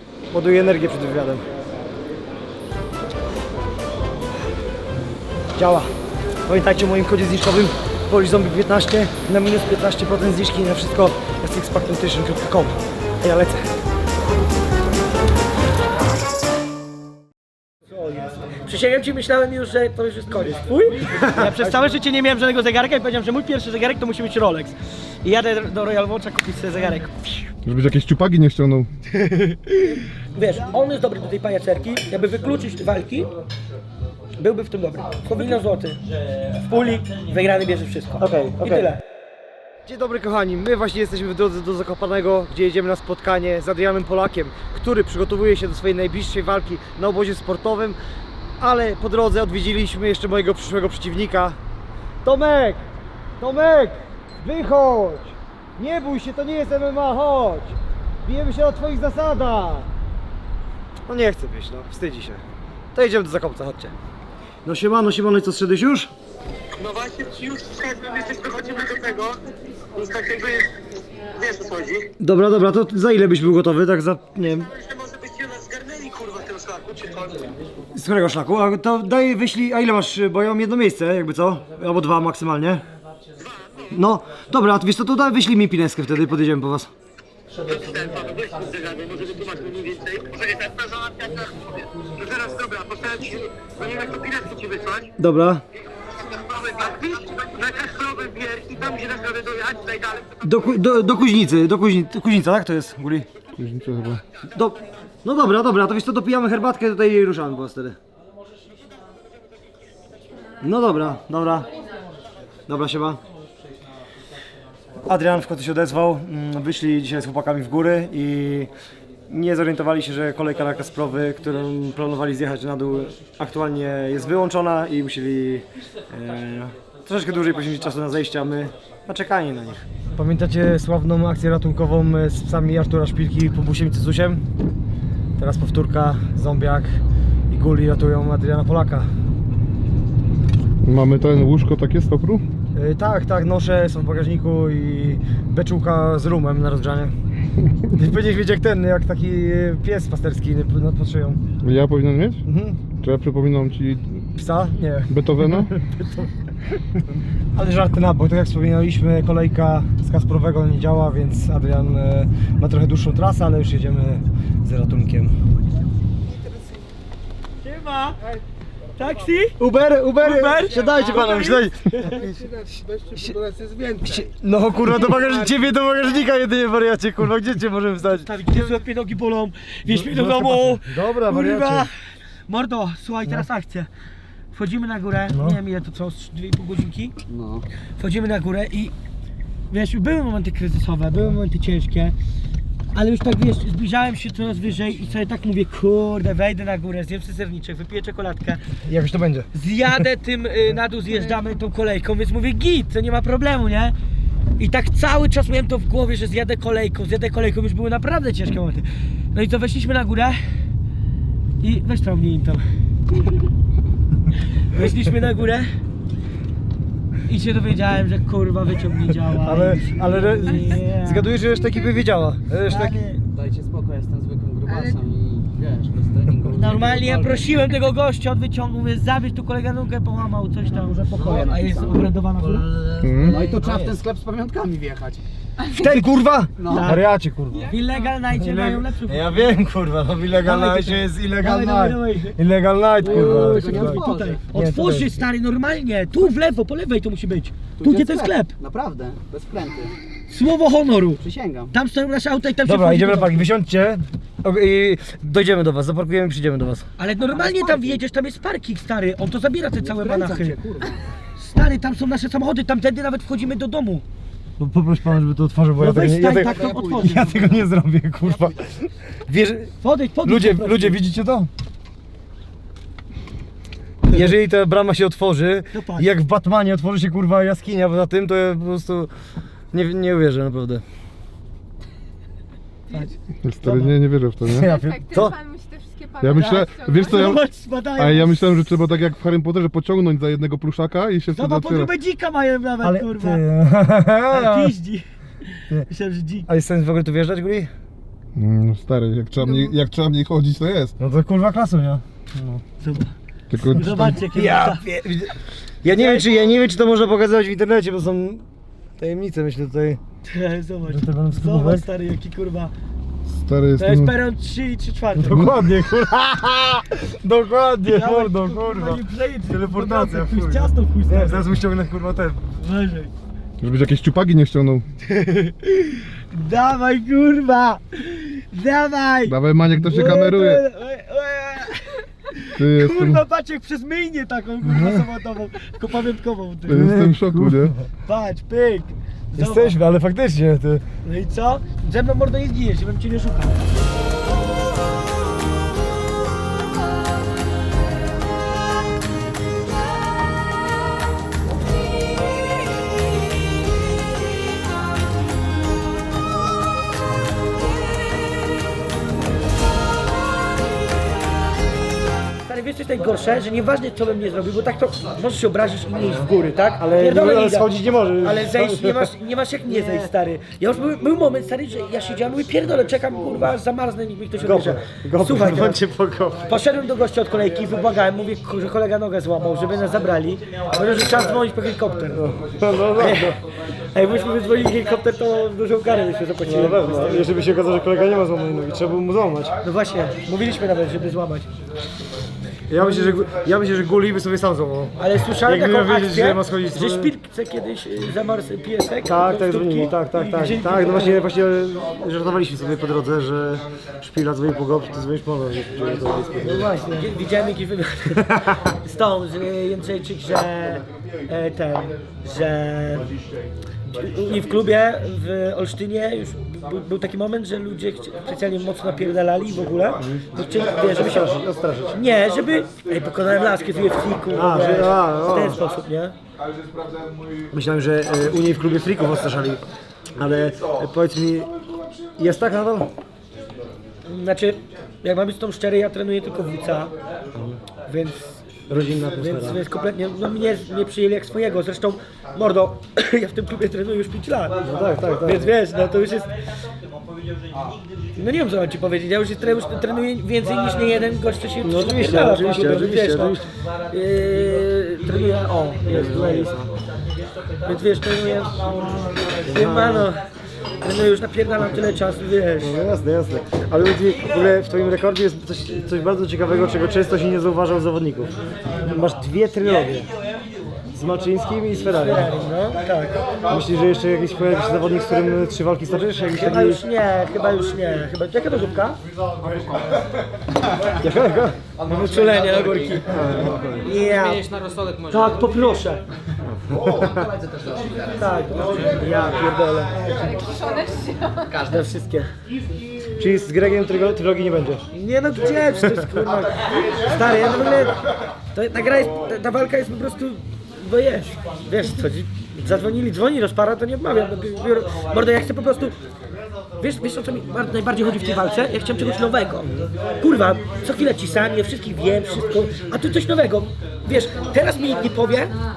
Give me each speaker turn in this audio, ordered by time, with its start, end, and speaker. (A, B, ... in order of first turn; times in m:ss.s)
0:00.3-0:01.4 A
0:05.6-0:05.9 A
0:06.4-0:13.7 A
0:17.9-0:27.3 B
0:21.1-0:21.6 A
0:27.6-0:28.9 C
0:29.1-0:33.3 B
0:34.4-0:36.0 B
0:36.6-0:39.0 B
0:38.2-0:38.9 A
0:39.8-0:48.0 A
0:48.6-0:51.6 A
0:52.2-0:52.8 A
0:53.4-0:59.9 A
1:01.1-1:02.4 A
1:02.9-1:03.9 A
1:04.6-1:06.1 A
1:06.8-1:09.4 D
1:09.9-1:10.7 D
1:11.3-1:12.1 D
1:12.2-1:14.7 A
1:14.6-1:17.5 D
1:17.9-1:22.8 A
1:23.4-1:23.9 D
1:23.9-1:26.9 A
1:27.6-1:35.1 D
1:35.2-1:35.6 A
1:36.3-1:40.6 D
1:40.4-1:43.3 A
1:43.6-1:44.2 C
1:44.5-1:48.0 A
1:50.6-1:51.7 A
1:52.7-1:53.2 A
1:55.0-1:58.7 A
1:59.3-2:14.4 A
2:15.4-2:19.1 A
2:20.8-2:22.4 C
2:22.7-2:27.1 A
2:27.9-2:31.4 A
2:31.6-2:32.4 C
2:32.4-2:32.8 A
2:33.0-2:34.3 C
2:34.4-2:36.3 A
2:35.1-2:35.7 C
2:37.5-2:45.3 A
2:47.6-2:48.2 B
2:49.0-2:49.6 B
2:49.6-2:52.5 A
2:50.2-2:51.6 B
2:50.7-2:54.3 E
2:54.0-2:58.6 A
2:55.0-2:55.6 E
2:58.1-3:01.9 B
2:59.9-3:01.9 A
3:02.5-3:03.9 B
3:04.5-3:07.1 B
3:05.3-3:05.6 A
3:07.3-3:07.6 E
3:08.0-3:08.9 B
3:09.7-3:12.1 B
3:12.9-3:18.6 B
3:18.8-3:19.5 A
3:19.5-3:23.9 B
3:24.6-3:30.4 B
3:31.6-3:32.6 B
3:34.7-3:35.7 B
3:37.3-3:41.3 B
3:39.4-3:43.0 A
3:41.6-3:42.0 F
3:42.6-3:43.2 B
3:43.3-3:47.5 E
3:46.6-3:52.7 B
3:50.7-3:55.2 E
3:53.0-3:53.4 C
3:53.3-3:53.9 B
3:55.7-3:57.7 A
3:56.6-3:56.9 E
3:56.7-3:57.0 B
3:57.7-3:59.5 B
3:58.3-4:05.2 A
4:00.4-4:02.4 B
4:03.0-4:08.5 B
4:03.0-4:04.4 E
4:07.8-4:09.9 E
4:10.3-4:13.5 B
4:11.2-4:11.7 E
4:12.6-4:16.9 A
4:17.0-4:20.6 B
4:17.3-4:18.0 E
4:19.8-4:20.9 E
4:21.4-4:24.0 B
4:24.6-4:29.7 A
4:25.8-4:27.3 B
4:26.3-4:27.5 E
4:29.8-4:31.0 B
4:30.2-4:31.5 A
4:34.1-4:39.1 A
4:35.7-4:36.1 B
4:39.7-4:40.8 A
4:43.4-4:44.7 C
4:43.6-4:43.9 A
4:44.5-4:45.4 A
4:44.6-4:47.4 F
4:46.2-4:47.4 C
4:46.4-4:48.7 B
4:48.0-4:51.9 C
4:51.3-4:53.4 B
4:52.8-4:54.7 A
4:54.3-4:56.5 B
4:56.5-4:57.7 A
4:58.4-5:00.9 C
4:59.4-4:59.7 F
5:01.0-5:02.6 A
5:02.8-5:03.1 B
5:03.5-5:04.1 C
5:03.6-5:04.8 B
5:03.8-5:08.4 A
5:05.8-5:06.5 B
5:09.0-5:10.0 A
5:10.3-5:12.7 B
5:10.9-5:11.8 A
5:13.4-5:14.1 C
5:13.8-5:15.6 B
5:15.1-5:22.5 A
5:17.8-5:21.4 B
5:22.6-5:23.1 B
5:23.6-5:24.8 C
5:25.1-5:36.8 B
5:29.3-5:30.6 C
5:32.6-5:33.2 C
5:34.7-5:35.0 A
5:36.7-5:37.8 A
5:36.7-5:37.7 C
5:38.1-5:39.7 B
5:39.3-5:40.8 A
5:41.0-5:43.7 B
6:02.4-6:07.7 B
6:06.8-6:09.1 A
6:08.2-6:15.8 B
6:09.7-6:10.1 A
6:14.4-6:16.6 A
6:16.5-6:22.3 B
6:22.1-6:23.4 A
6:23.0-6:23.3 B
6:23.9-6:27.3 B
6:26.4-6:29.5 A
6:29.6-6:31.5 B
6:32.7-6:34.9 A
6:32.8-6:33.2 B
6:35.0-6:41.2 B
6:35.4-6:37.1 A
6:39.0-6:47.1 A
6:46.4-6:53.1 B
6:48.2-6:48.5 A
6:53.8-7:01.3 B
7:00.0-7:00.2 A
7:00.8-7:02.0 A
7:01.9-7:06.1 B
7:04.3-7:05.6 A
7:07.5-7:09.6 A
7:10.2-7:11.5 A
7:12.2-7:12.9 A
7:14.0-7:16.9 B
7:17.3-7:17.6 A
7:17.9-7:18.4 B
7:18.7-7:19.6 A
7:19.2-7:24.6 B
7:24.6-7:25.5 A
7:25.2-7:26.3 B
7:28.2-7:36.5 B
7:31.6-7:33.4 A
7:35.9-7:36.7 A
7:37.6-7:38.8 B
7:39.4-7:40.2 B
7:39.4-7:40.1 A
7:40.8-7:42.7 B
7:42.6-7:50.1 A
7:50.9-7:52.3 A
7:51.8-7:53.1 B
7:53.5-7:56.8 A
7:56.3-7:59.0 B
8:01.0-8:01.6 A
8:01.8-8:03.1 B
8:03.1-8:03.9 A
8:03.8-8:04.4 B
8:03.9-8:05.5 E
8:05.1-8:06.0 B
8:06.4-8:07.3 A
8:07.2-8:08.9 E
8:08.1-8:10.0 B
8:10.1-8:11.5 F
8:11.5-8:12.3 B
8:13.2-8:14.8 A
8:14.9-8:18.0 B
8:15.8-8:16.2 A
8:18.5-8:25.9 B
8:26.8-8:35.6 B